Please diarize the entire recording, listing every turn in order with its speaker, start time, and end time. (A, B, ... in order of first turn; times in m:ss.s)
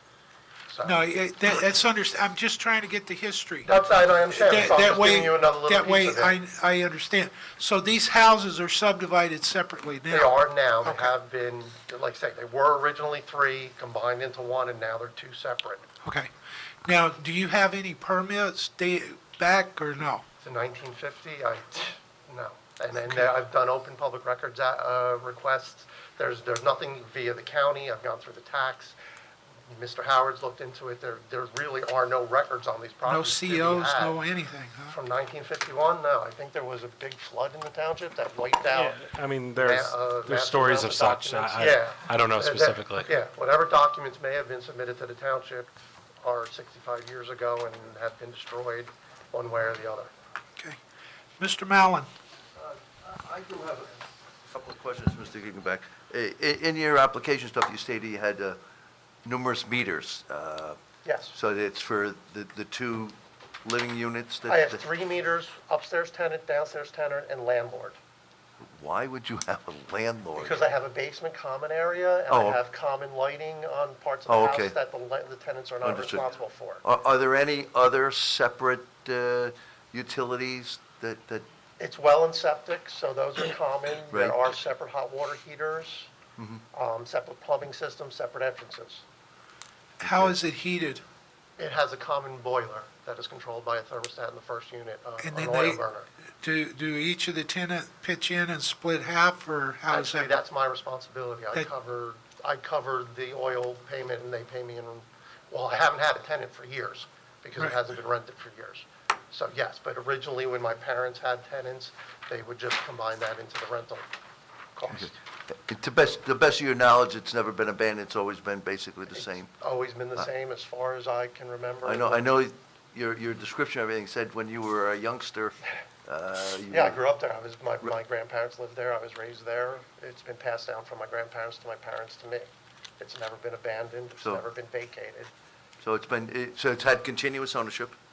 0:00.7-0:01.0 A
0:00.8-0:11.1 B
0:03.6-0:06.4 A
0:10.1-0:15.8 A
0:16.0-0:16.3 B
0:16.8-0:20.2 B
0:20.4-0:29.0 A
0:29.7-0:34.2 A
0:33.0-0:35.0 B
0:34.9-0:39.0 A
0:38.7-0:43.1 C
0:39.6-0:45.7 A
0:46.2-0:50.1 A
0:51.4-0:52.1 B
0:52.6-0:58.6 D
0:59.2-1:00.8 D
1:01.0-1:01.3 A
1:01.3-1:04.8 D
1:04.5-1:08.0 A
1:08.8-1:10.7 D
1:10.4-1:16.8 A
1:12.3-1:12.6 D
1:14.3-1:14.8 D
1:15.8-1:16.3 D
1:16.8-1:21.4 D
1:21.8-1:26.1 A
1:24.1-1:24.4 D
1:26.4-1:26.6 D
1:26.7-1:29.0 A
1:30.0-1:31.0 B
1:31.6-1:36.1 A
1:35.2-1:35.8 B
1:36.4-1:40.4 B
1:39.9-1:54.1 A
1:54.8-1:55.2 A
1:54.9-1:59.5 D
1:59.6-2:02.3 A
2:01.8-2:07.0 D
2:06.7-2:12.5 A
2:13.0-2:15.3 A
2:15.8-2:18.0 D